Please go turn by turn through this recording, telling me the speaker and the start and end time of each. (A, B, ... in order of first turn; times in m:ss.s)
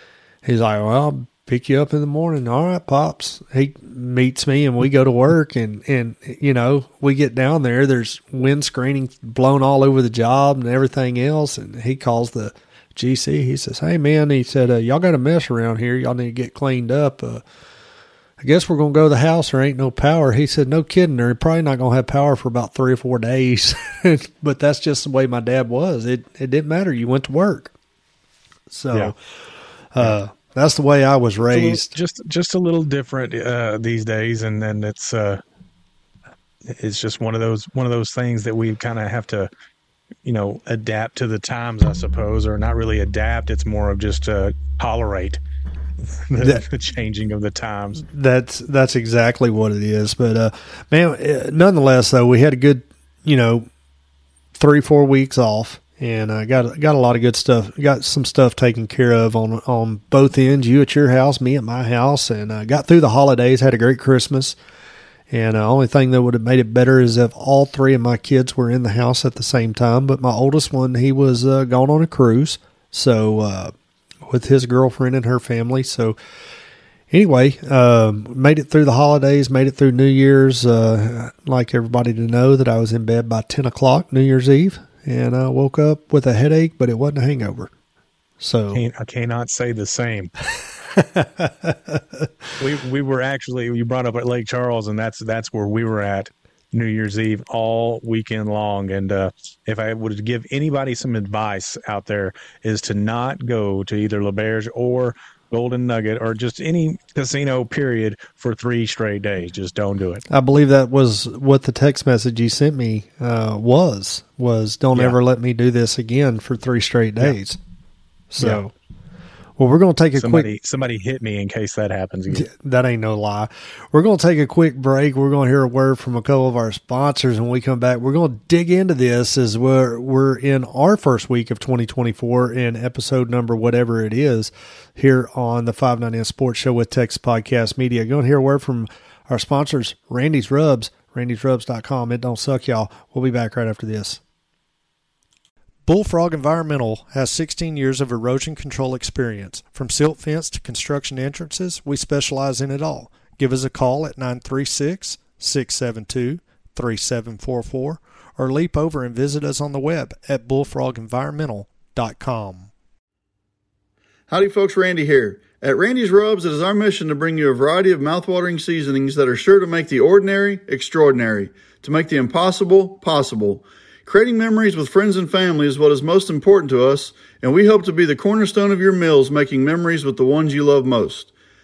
0:00.4-0:17.4 A
0:18.4-0:27.7 A
0:28.7-0:29.1 A
0:29.9-0:31.9 A
0:31.5-0:35.4 B
0:36.7-0:39.5 B
0:40.2-0:45.4 B
0:46.1-0:48.0 B
0:46.4-0:46.6 A
0:48.0-0:53.7 A
0:54.5-1:04.6 A
1:05.3-1:13.7 A
1:14.3-1:16.2 A
1:17.1-1:27.7 A
1:28.4-1:28.8 A
1:28.7-1:30.3 B
1:30.9-1:32.3 A
1:32.6-1:50.2 B
1:50.3-1:57.6 A
1:58.3-1:58.7 A
1:59.6-2:00.5 A
2:00.1-2:02.5 B
2:02.3-2:24.2 A
2:25.9-2:42.7 A
2:44.3-3:01.3 C